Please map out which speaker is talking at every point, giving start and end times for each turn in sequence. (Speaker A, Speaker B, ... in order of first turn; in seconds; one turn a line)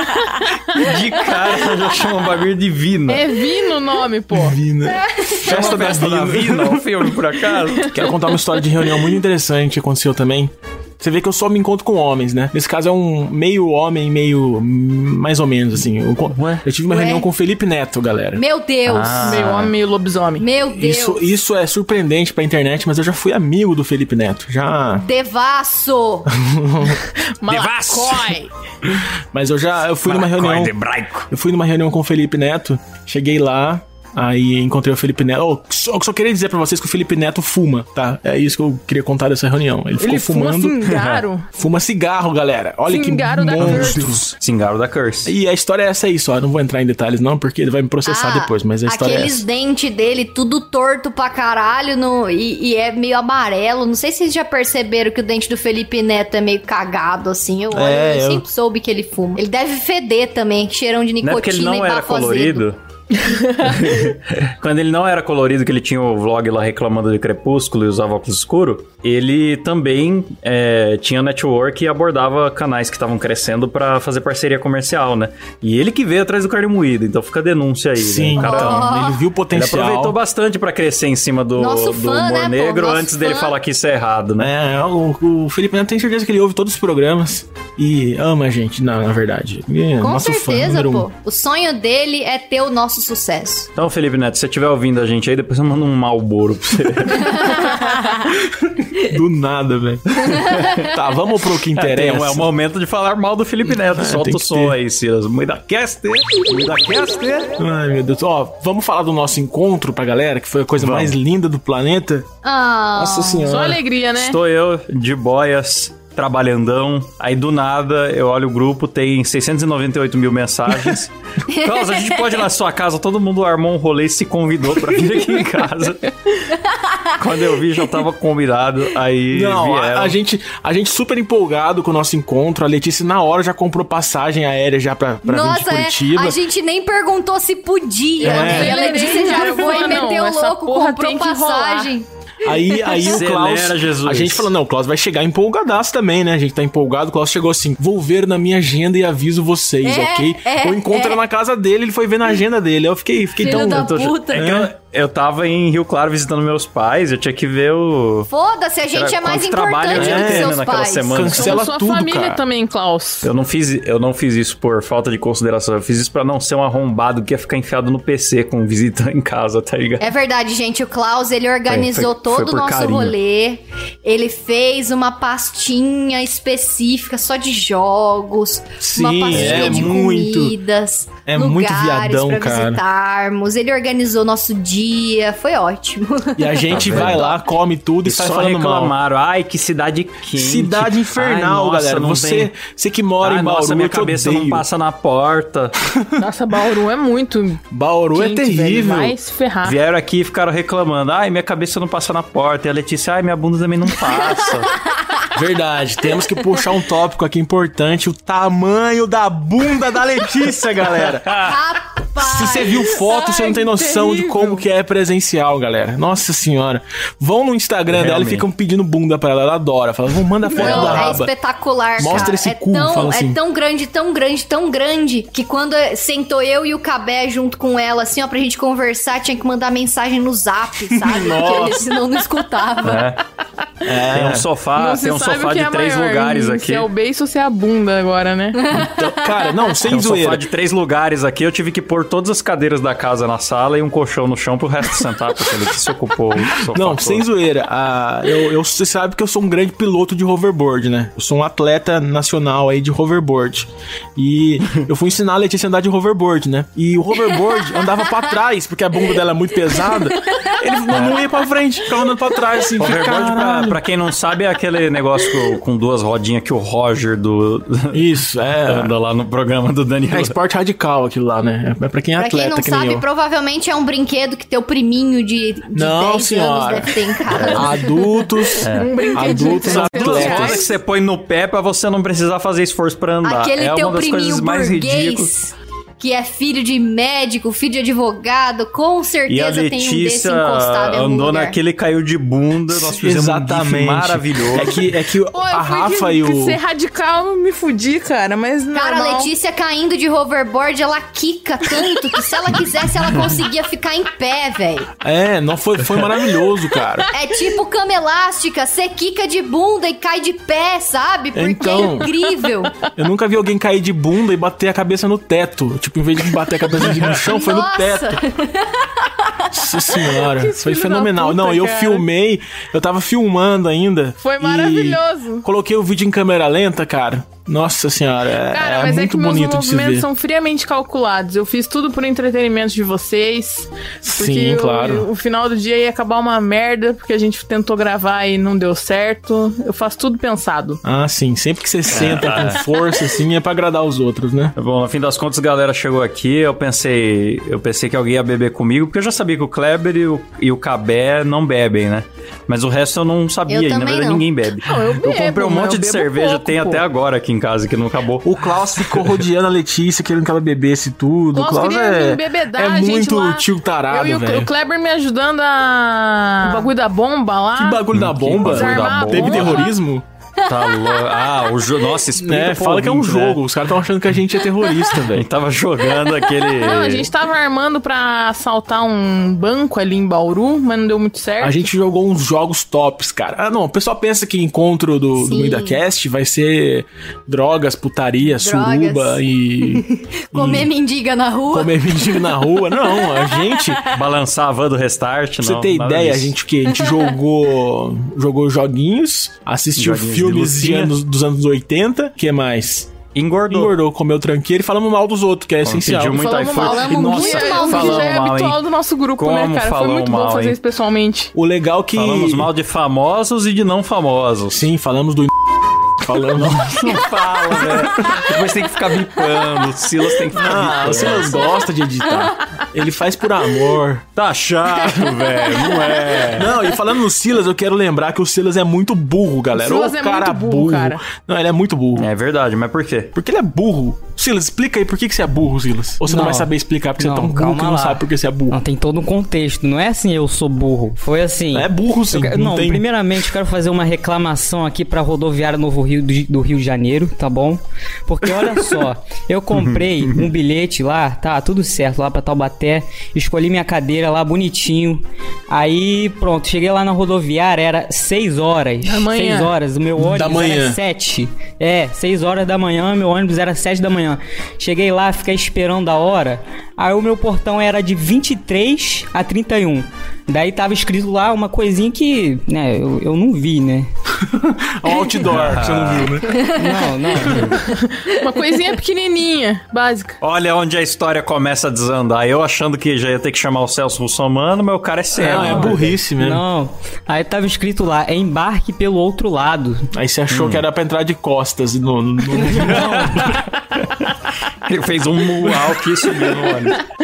Speaker A: 0.7-3.4
Speaker B: 3.1-4.6
Speaker C: 4.3-7.1
Speaker D: 4.9-5.5
Speaker A: 5.4-8.0
Speaker C: 7.8-18.4
Speaker A: 16.4-16.6
Speaker D: 16.9-17.3
Speaker D: 18.4-19.4
Speaker A: 18.9-19.7
Speaker B: 19.2-20.5
Speaker D: 20.4-21.2
Speaker C: 20.7-25.1
Speaker D: 25.0-26.3
Speaker C: 26.3-27.0
Speaker B: 27.1-28.5
Speaker A: 27.5-28.4
Speaker C: 29.3-30.7
Speaker A: 30.1-31.3
Speaker C: 31.3-40.9
Speaker B: 40.0-41.5
Speaker A: 40.9-41.2
Speaker C: 41.5-44.3
Speaker B: 42.9-44.1
Speaker A: 43.6-45.3
Speaker C: 45.2-49.4
Speaker D: 48.1-62.6
Speaker C: 57.7-58.5
Speaker A: 61.2-62.8
Speaker B: 63.2-63.7
Speaker A: 63.6-79.0
Speaker C: 78.0-80.2
Speaker D: 78.4-79.2
Speaker A: 79.5-84.5
Speaker D: 81.6-83.5
Speaker C: 84.4-91.1
Speaker D: 90.0-93.7
Speaker A: 93.8-97.7
Speaker D: 97.3-97.9
Speaker C: 98.8-102.5
Speaker A: 100.3-100.9
Speaker A: 101.8-107.6
Speaker C: 103.8-104.8
Speaker C: 107.6-112.3
Speaker A: 110.8-111.2
Speaker D: 112.4-113.5
Speaker C: 113.0-113.8
Speaker B: 113.5-114.4
Speaker A: 114.2-126.1
Speaker D: 121.5-122.4
Speaker D: 126.5-127.2
Speaker A: 127.2-130.2
Speaker C: 129.3-136.4
Speaker D: 135.2-143.2
Speaker B: 138.2-141.9
Speaker C: 138.2-139.1
Speaker C: 142.4-154.7
Speaker A: 143.0-144.5
Speaker D: 149.8-151.2
Speaker D: 153.4-154.5
Speaker A: 153.4-158.3
Speaker D: 158.3-161.3
Speaker A: 158.9-161.6
Speaker C: 159.9-162.4
Speaker B: 161.3-163.3
Speaker A: 163.2-170.1
Speaker D: 170.0-187.2
Speaker A: 171.7-173.2
Speaker C: 178.8-180.6
Speaker A: 179.3-179.9
Speaker C: 181.3-182.8
Speaker C: 186.4-188.9
Speaker A: 186.7-187.3
Speaker A: 188.0-192.5
Speaker C: 190.3-194.7
Speaker A: 193.2-195.8
Speaker C: 195.9-196.2
Speaker B: 196.2-199.8
Speaker C: 197.7-199.2
Speaker A: 199.6-204.7
Speaker C: 205.3-211.4
Speaker A: 211.3-211.5
Speaker D: 211.4-213.0
Speaker C: 212.2-221.3
Speaker B: 213.1-214.7
Speaker A: 217.9-218.5
Speaker D: 220.6-233.1
Speaker A: 220.6-221.0
Speaker C: 222.0-223.4
Speaker A: 222.0-222.3
Speaker C: 230.9-231.9
Speaker A: 232.8-233.2
Speaker C: 233.8-234.5
Speaker A: 234.1-236.9
Speaker B: 234.8-238.6
Speaker D: 238.6-239.1
Speaker C: 238.7-240.4
Speaker A: 239.9-247.2
Speaker C: 246.7-263.8
Speaker A: 260.9-261.2
Speaker A: 262.8-268.0
Speaker C: 267.9-268.9
Speaker A: 268.7-270.4
Speaker C: 270.1-273.0
Speaker D: 272.2-277.8
Speaker C: 275.7-280.7
Speaker A: 277.3-277.6
Speaker A: 278.6-285.3
Speaker B: 278.7-280.7
Speaker D: 283.2-291.6
Speaker A: 289.3-294.8
Speaker C: 292.7-296.6
Speaker B: 295.3-299.3
Speaker D: 298.7-304.9
Speaker C: 305.0-307.1
Speaker D: 307.1-312.7
Speaker C: 311.3-312.1
Speaker C: 313.0-318.2
Speaker A: 316.9-317.1
Speaker D: 317.2-319.5
Speaker C: 319.5-330.1
Speaker B: 320.3-322.1
Speaker B: 324.2-325.5
Speaker B: 328.5-340.8
Speaker C: 334.0-335.1
Speaker C: 340.8-344.6
Speaker A: 341.9-342.6
Speaker A: 344.6-359.1
Speaker D: 353.5-354.2
Speaker B: 354.7-356.8
Speaker C: 358.2-364.5
Speaker B: 361.3-367.9
Speaker C: 367.6-370.0
Speaker A: 367.9-369.7
Speaker B: 368.4-369.7
Speaker D: 370.5-371.0
Speaker A: 370.5-373.4
Speaker C: 372.2-375.3
Speaker A: 375.1-377.1
Speaker B: 376.6-381.6
Speaker C: 381.4-390.7
Speaker D: 385.2-385.8
Speaker D: 388.3-393.5
Speaker C: 391.5-393.9
Speaker A: 393.9-396.3
Speaker C: 395.4-402.9
Speaker A: 399.8-400.9
Speaker A: 403.1-403.7
Speaker C: 403.5-407.0
Speaker A: 405.6-408.6
Speaker B: 406.2-411.3
Speaker D: 406.5-408.2
Speaker A: 409.2-410.6
Speaker C: 411.3-412.5
Speaker A: 411.9-414.7
Speaker C: 414.5-415.3
Speaker C: 415.9-418.2
Speaker A: 416.4-421.4
Speaker C: 420.3-424.1
Speaker A: 424.2-426.6
Speaker C: 426.2-432.1
Speaker B: 429.5-431.0
Speaker A: 432.0-433.1
Speaker C: 433.1-438.6
Speaker E: 436.1-473.9
Speaker C: 441.5-442.9
Speaker A: 449.5-450.3
Speaker B: 458.8-459.5
Speaker C: 460.0-460.8
Speaker C: 474.2-476.4
Speaker A: 475.3-476.2
Speaker E: 476.5-477.6
Speaker A: 477.3-477.6
Speaker B: 477.7-480.2
Speaker A: 480.2-486.0
Speaker C: 485.2-486.4
Speaker E: 485.2-489.9
Speaker C: 489.9-493.3
Speaker A: 490.3-490.6
Speaker E: 492.5-493.3
Speaker A: 492.5-496.8